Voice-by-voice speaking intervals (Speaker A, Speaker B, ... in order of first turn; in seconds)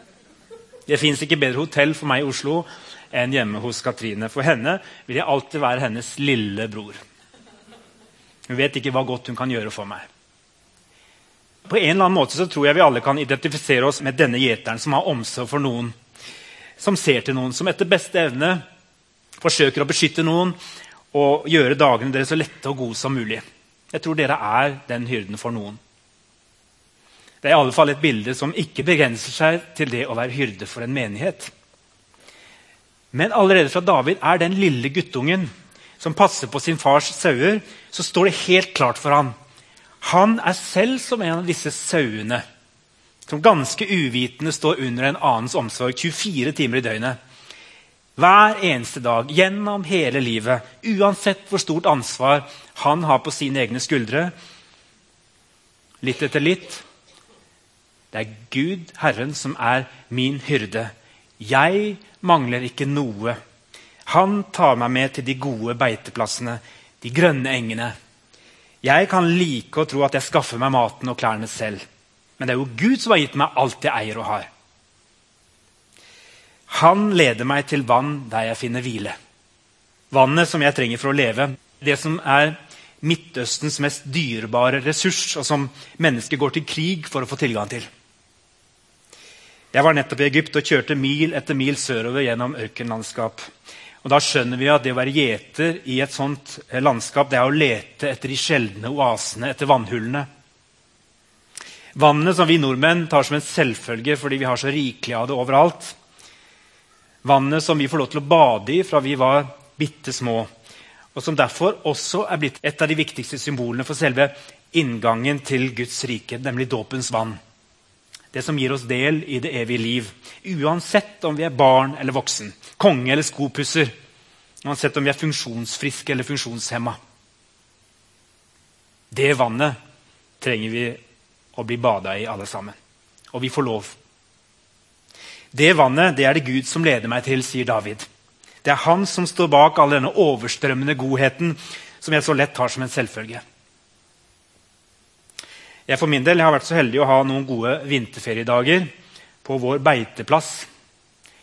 Speaker A: 0.9-7.0, 8.5-10.1, 11.7-15.9, 16.8-18.6, 19.4-20.6, 21.1-25.8, 27.4-31.5, 33.1-39.3, 40.0-42.4, 43.2-47.2, 48.2-54.3, 56.0-56.8, 58.1-63.4, 64.0-67.9, 68.8-71.8, 72.4-74.5, 76.7-79.1, 80.1-87.9, 89.7-93.5, 94.0-100.3, 101.9-106.0, 107.2-110.5, 111.1-117.4, 118.3-123.9, 124.6-127.0, 129.1-129.7, 130.4-131.0, 131.5-132.8, 133.3-133.9, 135.5-138.1, 138.6-143.4, 145.9-148.9, 149.4-150.7